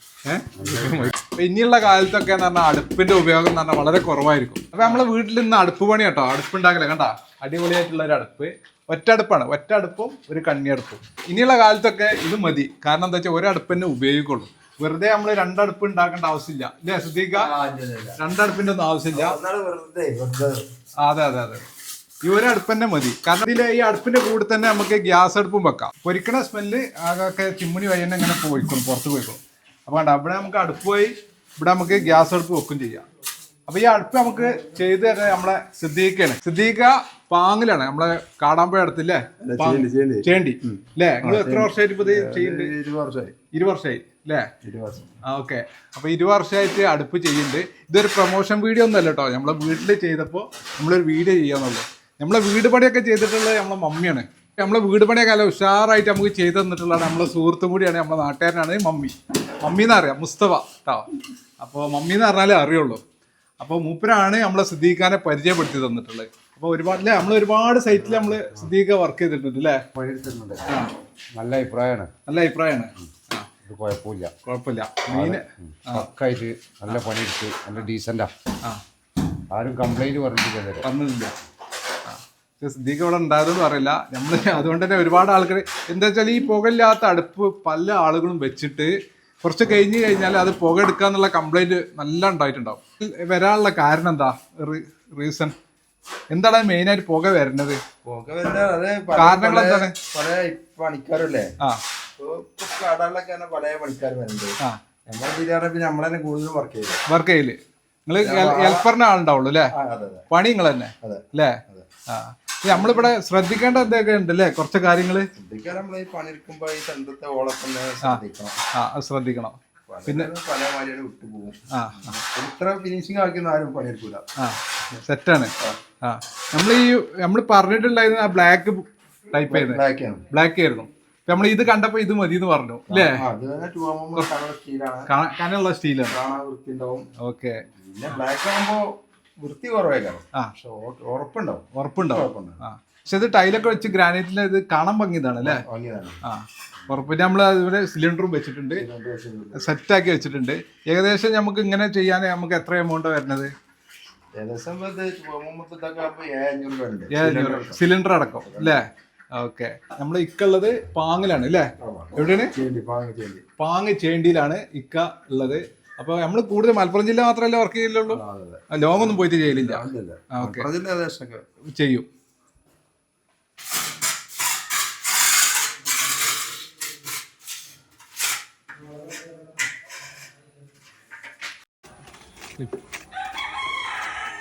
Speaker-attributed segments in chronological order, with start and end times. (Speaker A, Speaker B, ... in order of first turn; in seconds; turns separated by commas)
Speaker A: 0.2-17.5, Speaker B: 0.6-1.1, Speaker C: 17.3-18.2, Speaker A: 18.2-19.4, Speaker C: 19.1-20.6, Speaker A: 21.0-21.7, Speaker A: 22.2-33.1, Speaker A: 33.7-42.7, Speaker C: 39.4-43.3, Speaker A: 43.5-44.5, Speaker C: 44.6-45.1, Speaker A: 45.2-61.1, Speaker A: 61.6-63.0, Speaker A: 63.6-69.8, Speaker B: 70.0-70.7, Speaker B: 71.3-72.1, Speaker A: 72.3-73.5, Speaker B: 73.6-74.3, Speaker A: 74.5-76.1, Speaker B: 75.1-78.3, Speaker B: 79.5-80.9, Speaker A: 80.8-81.3, Speaker A: 82.1-88.9, Speaker A: 89.4-95.5, Speaker A: 96.3-97.8, Speaker C: 98.0-101.5, Speaker A: 99.2-99.9, Speaker C: 102.2-104.6, Speaker C: 105.1-107.0, Speaker A: 107.1-109.7, Speaker C: 108.2-108.9, Speaker C: 109.7-110.3, Speaker A: 110.3-111.6, Speaker C: 111.0-111.9, Speaker A: 112.1-115.3, Speaker C: 112.7-113.1, Speaker C: 115.4-118.6, Speaker A: 118.7-120.3, Speaker C: 119.9-124.2, Speaker A: 121.7-122.2, Speaker A: 124.4-133.2, Speaker C: 129.5-130.2, Speaker C: 132.9-135.1, Speaker A: 135.1-136.2, Speaker C: 136.1-137.1, Speaker A: 137.2-137.6, Speaker C: 137.7-138.8, Speaker C: 139.4-142.6, Speaker A: 141.8-145.6, Speaker C: 145.4-146.2, Speaker A: 146.2-148.8, Speaker C: 148.8-149.7, Speaker A: 149.5-153.5, Speaker C: 154.3-157.8, Speaker A: 157.1-162.5, Speaker C: 158.4-158.8, Speaker C: 161.8-163.4, Speaker A: 163.6-170.7, Speaker C: 168.1-171.4, Speaker A: 171.7-172.1